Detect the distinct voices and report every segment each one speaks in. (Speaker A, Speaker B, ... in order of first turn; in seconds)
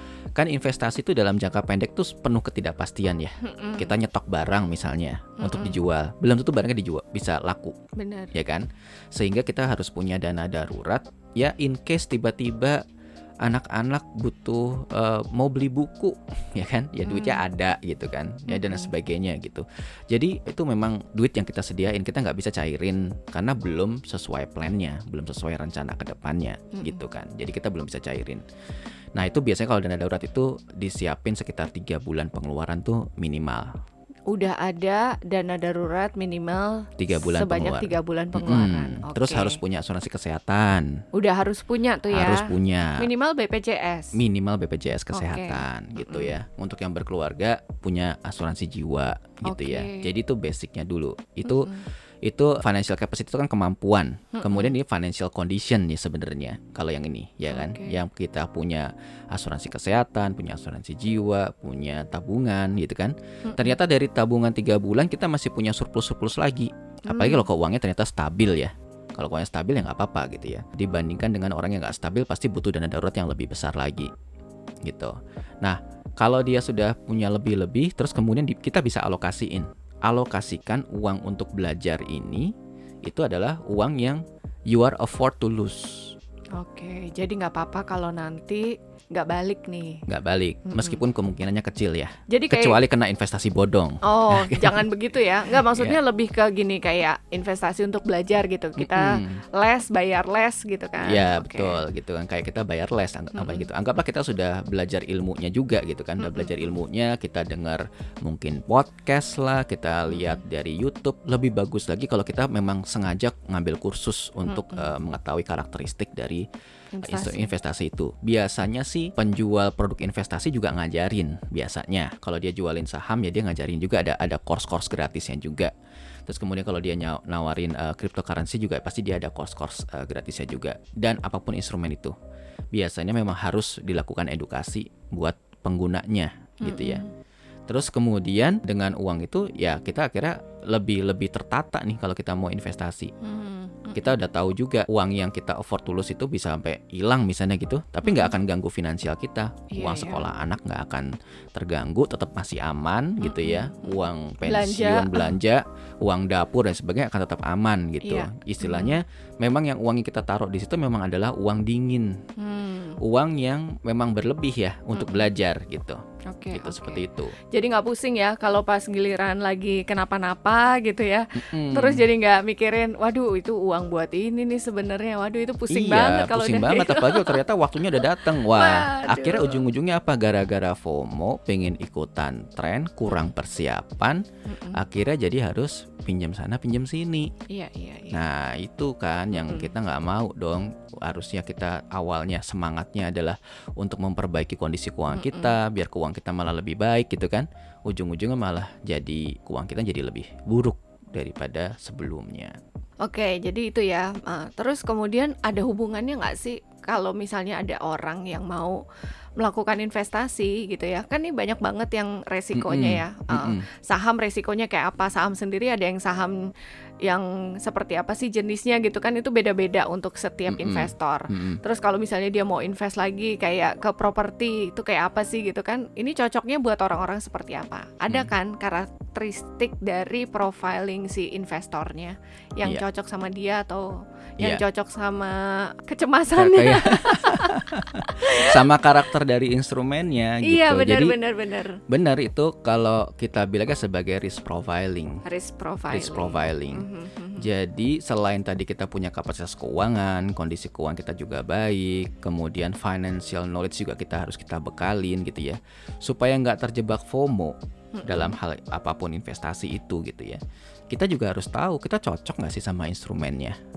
Speaker A: 0.3-7.8, 8.3-12.8, 13.4-28.4, 29.1-33.7, 37.0-41.0, 42.1-43.1, 44.1-51.7, 52.2-74.1, 74.8-82.5, 83.0-86.1, 90.1-94.8, 95.5-96.0, 98.8-99.4, 101.0-116.5, 117.0-125.7, 126.3-132.1, 132.7-137.0, 137.7-143.1, 143.9-162.2, 163.0-167.3, 171.3-172.1, 175.7-187.3, 188.1-202.6, 212.5-213.6, 220.5-221.6, 236.3-241.2, 241.9-245.2, 245.9-246.8, 247.4-263.6
Speaker B: 3.4-3.9, 5.4-5.8, 7.9-8.3, 17.1-17.4, 18.5-18.9, 34.3-39.6, 41.1-44.1, 45.1-46.3, 49.5-50.1, 51.4-51.9, 54.3-54.8, 57.5-58.0, 63.5-63.8, 67.1-67.5, 86.5-90.0, 90.7-91.0, 92.3-92.8, 94.0-101.8, 103.3-103.7, 106.2-106.5, 110.1-110.4, 114.5-114.9, 116.9-117.5, 136.6-137.1, 143.2-144.2, 148.0-148.3, 149.7-150.2, 153.2-155.4, 158.0-159.0, 162.4-163.0, 164.9-165.3, 166.3-179.6, 184.4-184.8, 187.5-188.2, 189.3-189.7, 195.1-195.5, 203.0-208.8, 209.4-216.4, 217.0-238.6, 240.4-241.8, 245.2-247.5, 257.9-258.4